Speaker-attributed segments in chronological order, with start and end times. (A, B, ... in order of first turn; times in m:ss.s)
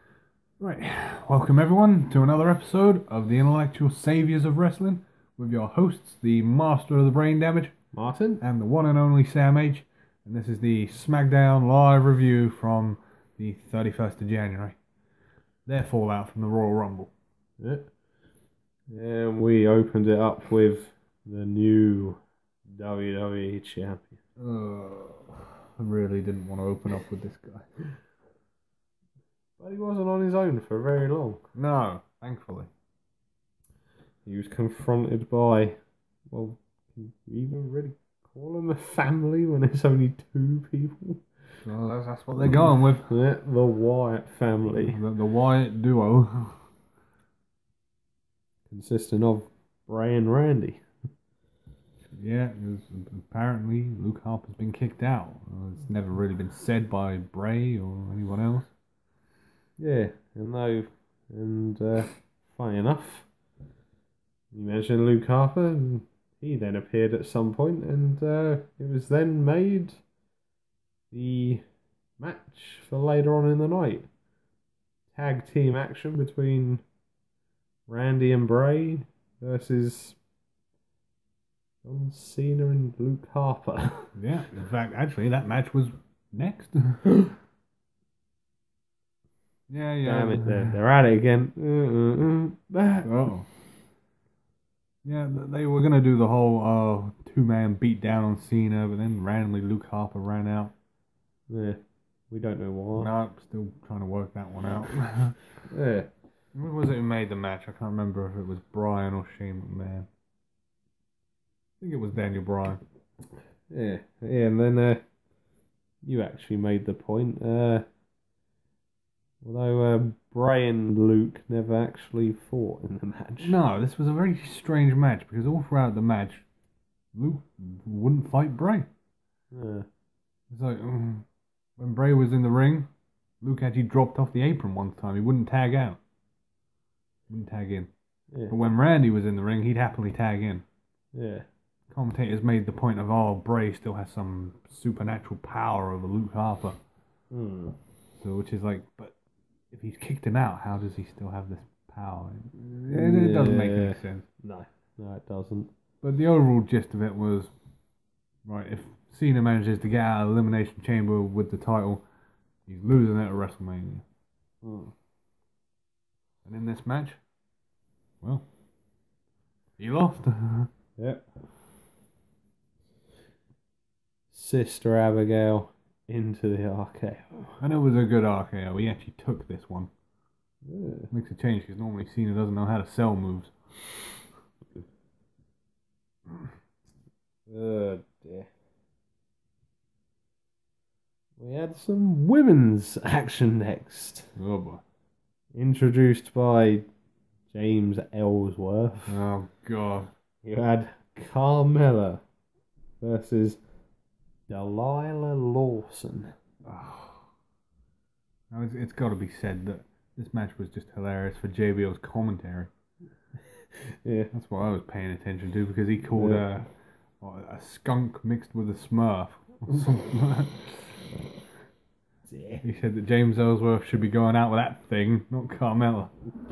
0:00.6-0:07.8 A
0:07.9-0:08.4 B
0:08.4-0:14.8 A
0:15.7-0:17.1 A
0:17.6-0:17.9 B
0:18.9-0:24.2 B
0:24.4-0:28.0 A
0:29.6-0:31.4 B
0:31.6-0:32.7 A
0:34.2-0:41.3 B
0:41.6-0:43.1 A
0:42.5-0:45.0 B
0:44.8-0:46.7 A
0:48.7-0:50.8 B
0:52.1-0:58.7 A
0:59.8-1:03.3 B
1:04.5-1:10.0 B
1:11.1-1:11.6 B
1:12.2-1:14.1 B
1:15.1-1:16.8 B
1:17.9-1:20.2 B
1:21.8-1:24.2 B
1:24.2-1:27.2 A
1:29.7-1:30.8 A
1:30.0-1:33.1 B
1:33.0-1:33.5 A
1:35.0-1:40.7 A
1:41.5-1:41.8 B
1:42.3-1:43.1 B
1:43.0-1:45.5 A
1:45.7-1:46.1 B
1:46.6-1:50.1 A
1:51.8-1:52.8 A
1:53.7-1:55.0 B
1:56.0-1:57.8 B
1:59.4-2:03.6 B
2:03.4-2:06.5 A
2:07.1-2:08.9 A
2:09.5-2:09.9 B
2:10.5-2:11.3 A
2:11.8-2:12.9 A
2:13.4-2:16.0 A
2:17.3-2:17.9 A
2:18.5-2:20.6 A
2:21.1-2:21.5 B
2:21.9-2:26.8 A
2:27.3-2:27.8 B
2:28.2-2:29.2 A
2:29.7-2:34.3 A
2:32.9-2:35.7 B
2:36.0-2:37.5 A
2:38.4-2:42.0 A
2:42.7-2:44.0 A
2:44.6-2:44.9 B
2:46.4-2:47.2 A
2:49.8-2:50.7 A
2:51.0-2:51.3 B
2:54.3-2:57.5 B
2:57.6-2:59.9 A
3:00.6-3:01.1 B
3:01.1-3:03.8 A
3:07.5-3:08.5 B
3:11.4-3:14.3 B
3:14.4-3:14.8 A
3:15.5-3:16.8 B
3:17.5-3:19.2 B
3:19.1-3:20.1 A
3:20.4-3:22.2 B
3:23.0-3:23.6 B
3:24.5-3:26.3 B
3:26.6-3:27.3 A
3:28.5-3:32.7 A
3:34.0-3:34.3 B
3:34.3-3:41.1 A
3:36.2-3:36.5 B
3:42.3-3:42.6 B
3:42.6-3:46.1 A